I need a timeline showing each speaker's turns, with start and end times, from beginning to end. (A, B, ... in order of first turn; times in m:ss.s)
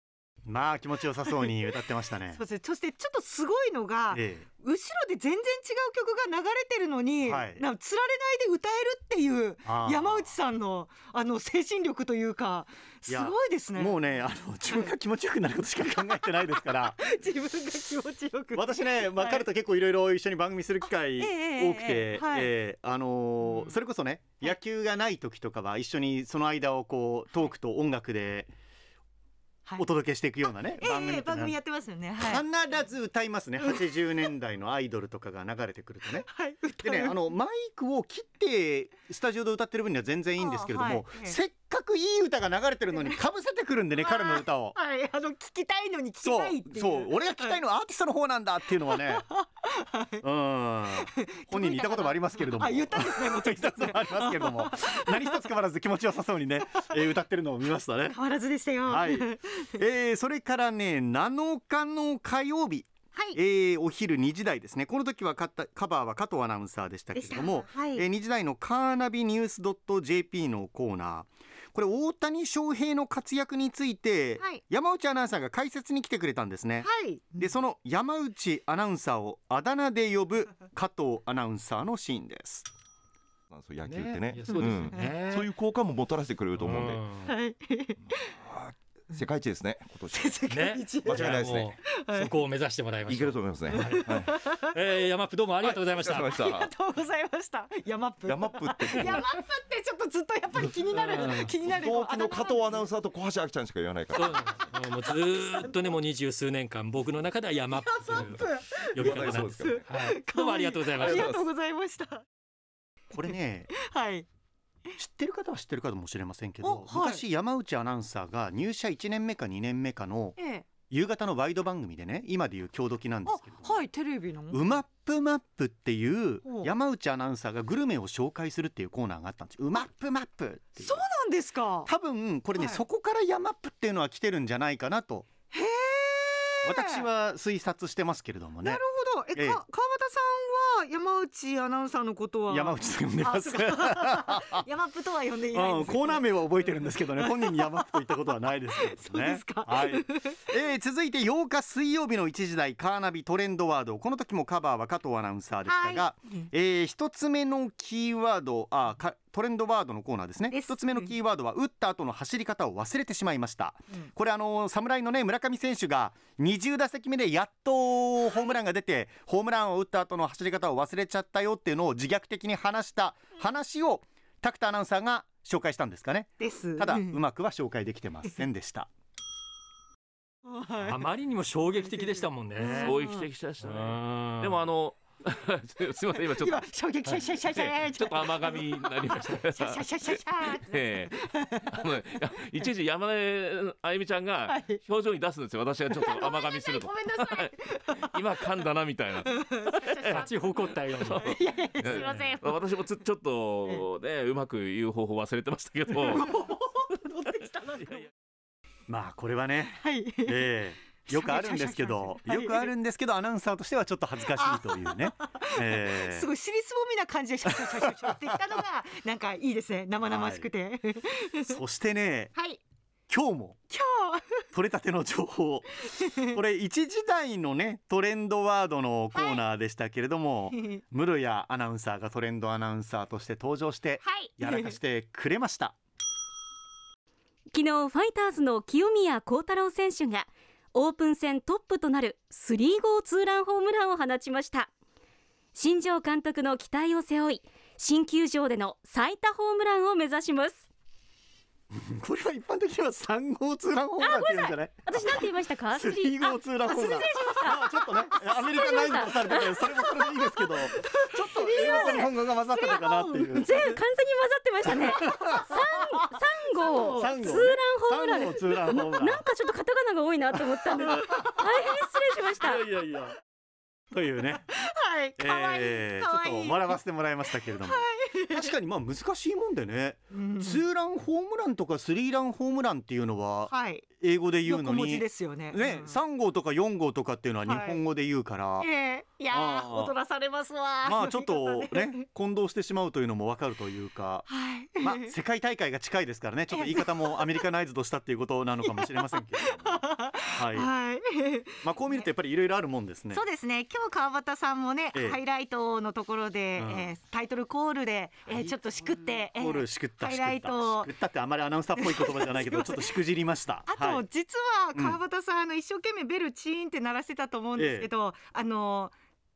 0:00.4-0:02.4 A
0:02.3-0:14.0 B
0:04.1-0:04.5 A
0:07.2-0:07.6 A
0:09.6-0:10.3 A
0:13.1-0:17.0 A
0:16.2-0:19.4 B
0:18.5-0:28.5 A
0:21.2-0:22.5 B
0:23.5-0:23.7 B
0:29.8-0:31.6 A
0:30.8-0:32.4 B
0:32.2-0:36.3 A
0:36.2-0:37.2 B
0:36.8-0:44.8 A
0:40.4-0:41.4 B
0:44.0-0:47.6 B
0:46.2-0:49.2 A
0:48.9-0:50.2 B
0:50.2-0:58.2 A
0:51.2-0:55.4 B
0:58.1-0:59.7 B
0:58.8-1:22.7 A
1:07.1-1:08.0 B
1:16.8-1:17.5 B
1:23.5-1:27.1 C
1:23.8-1:25.5 D
1:24.5-1:25.1 B
1:26.6-1:27.3 D
1:27.3-1:28.3 B
1:28.1-1:30.4 C
1:30.1-1:31.3 B
1:30.5-1:36.4 D
1:31.0-1:31.7 C
1:32.0-1:32.4 B
1:33.0-1:34.5 C
1:33.7-1:34.7 B
1:35.6-1:36.7 C
1:36.2-1:42.9 B
1:38.2-1:39.2 C
1:38.9-1:39.1 D
1:40.9-1:41.5 D
1:41.7-1:44.6 C
1:44.1-1:48.4 D
1:45.3-1:45.9 B
1:47.7-1:52.2 B
1:48.9-1:51.3 D
1:49.0-1:49.9 C
1:51.0-1:51.4 C
1:53.1-1:53.7 A
1:53.8-1:54.2 B
1:55.0-2:00.4 A
1:56.6-1:57.2 B
2:00.4-2:00.6 B
2:00.9-2:03.8 A
2:03.2-2:04.7 B
2:04.5-2:11.0 A
2:06.4-2:06.7 B
2:10.8-2:11.9 B
2:11.8-2:15.3 A
2:12.6-2:12.8 B
2:15.5-2:17.0 B
2:16.6-2:18.8 A
2:18.6-2:30.5 B
2:19.3-2:19.6 A
2:22.5-2:24.6 A
2:25.5-2:58.9 A
2:35.7-2:36.5 B
2:40.5-2:41.1 B
2:56.4-2:57.2 B
3:00.4-3:01.1 B
3:00.8-3:03.0 D
3:01.7-3:03.3 B
3:02.8-3:06.7 E
3:03.6-3:04.6 D
3:06.4-3:11.8 B
3:07.4-3:20.3 E
3:14.5-3:14.8 B
3:15.9-3:18.1 B
3:19.2-3:22.6 B
3:20.1-3:21.3 D
3:20.9-3:26.2 E
3:26.0-3:28.0 B
3:28.9-3:36.3 A
3:29.8-3:30.5 B
3:31.1-3:32.7 B
3:34.4-3:41.6 B
3:40.0-3:40.5 A
3:41.5-3:42.3 A
3:42.4-3:42.6 B
3:43.1-3:43.6 A
3:43.7-3:44.4 B
3:44.5-3:45.7 A
3:46.0-3:46.3 B
3:46.3-3:55.8 A
3:49.1-3:49.4 B
3:50.5-3:50.8 B
3:54.0-3:54.8 B
3:57.5-4:04.7 F
4:05.5-4:10.6 F
4:11.7-4:23.6 A
4:14.0-4:17.6 F
4:16.6-4:23.8 B
4:18.2-4:19.6 F
4:21.8-4:22.1 F
4:23.3-4:32.7 F
4:24.6-4:25.5 A
4:25.1-4:25.6 B
4:26.5-4:27.5 B
4:27.0-4:29.2 A
4:30.8-4:31.7 B
4:32.4-4:33.1 A
4:33.9-4:34.5 A
4:34.5-4:38.5 B
4:35.2-4:48.7 A
4:40.1-4:40.6 B
4:43.5-4:43.8 B
4:44.4-4:46.0 B
4:47.4-4:47.8 B
4:48.6-4:52.0 B
4:49.3-4:49.9 A
4:50.8-4:54.3 A
4:54.3-4:55.1 B
4:54.8-5:00.7 A
4:56.5-4:57.4 B
4:58.6-5:02.1 B
5:01.6-5:03.2 A
5:03.1-5:10.9 B
5:04.9-5:05.2 A
5:06.6-5:06.9 A
5:08.3-5:14.0 A
5:11.8-5:13.0 B
5:13.6-5:18.9 B
5:17.6-5:17.9 A